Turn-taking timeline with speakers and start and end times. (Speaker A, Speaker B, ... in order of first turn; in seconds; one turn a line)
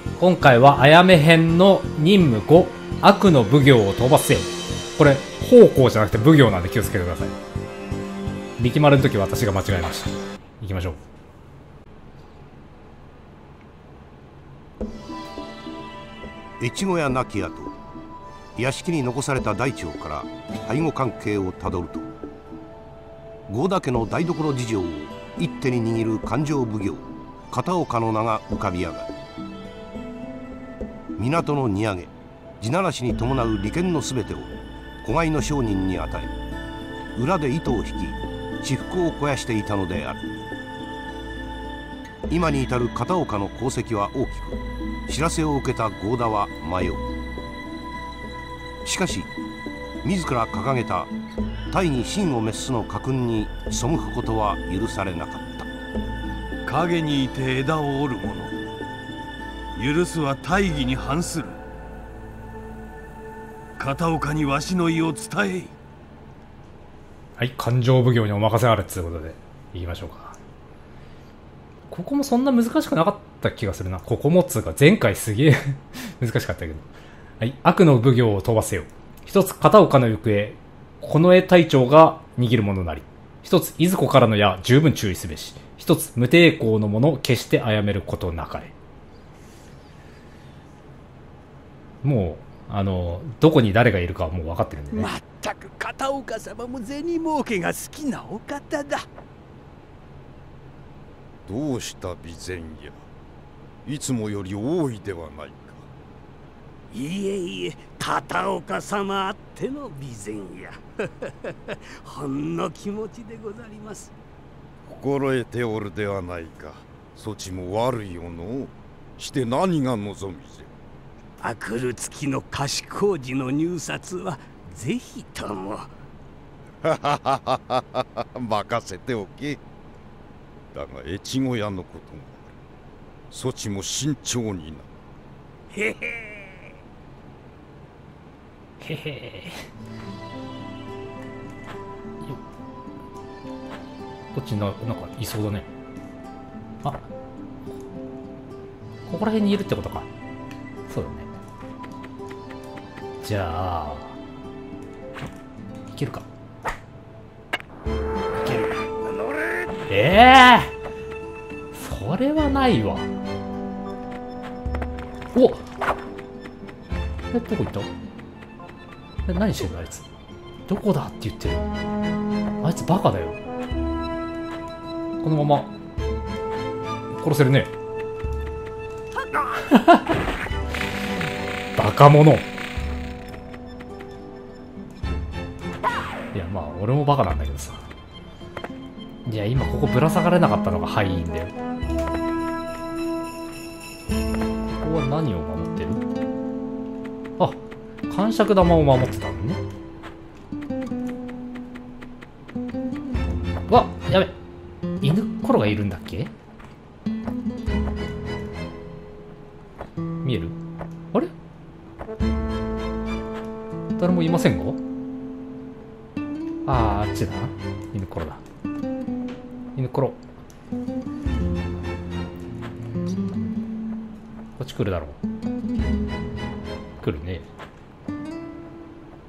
Speaker A: 0.2-7.3
Speaker A: 8.6-11.0
Speaker B: 16.6-17.7
Speaker B: 18.6-22.1
Speaker B: 23.5-29.1
Speaker B: 31.2-36.3
Speaker B: 37.1-40.2
Speaker B: 42.3-47.0
Speaker B: 48.8-49.3
Speaker B: 50.0-51.1
Speaker B: 51.7-55.7
Speaker C: 56.6-58.5
Speaker C: 59.7-61.6
Speaker C: 63.8-65.7
Speaker A: 67.4-70.4
Speaker A: 71.9-76.9
Speaker A: 77.4-88.7
Speaker A: 92.0-95.1
Speaker D: 94.9-99.1
Speaker E: 101.5-103.0
Speaker E: 103.8-105.9
Speaker D: 106.9-114.1
Speaker E: 114.8-120.7
Speaker D: 121.4-125.9
Speaker E: 126.8-129.6
Speaker E: 130.7-132.5
Speaker E: 133.3-134.9
Speaker D: 135.7-136.5
Speaker A: 138.8-139.6
Speaker A: 144.3-145.7
Speaker A: 149.1-150.1
Speaker A: 150.9-151.3
Speaker A: 153.2-154.2
Speaker A: 155.9-156.3
Speaker A: 158.3-158.7
Speaker A: 159.9-160.7
Speaker A: 161.7-163.1
Speaker A: 165.3-165.6
Speaker A: 167.3-167.9
Speaker A: 169.2-170.1
Speaker A: 170.7-171.7
Speaker A: 172.6-173.4
Speaker A: 175.2-175.7
Speaker A: 177.1-177.7
Speaker A: 179.5-180.1
Speaker A: 181.8-182.5
Speaker A: 186.3-187.9
Speaker A: 189.2-191.5
Speaker A: 194.6-196.0
Speaker A: 197.4-199.6
Speaker A: 203.7-204.3
Speaker A: 205.0-206.3
Speaker A: 210.2-210.6
Speaker A: 214.0-214.8
Speaker A: 216.6-218.4
Speaker A: 219.7-220.2
Speaker A: 222.7-223.5
Speaker A: 224.6-225.2
Speaker A: 227.0-227.5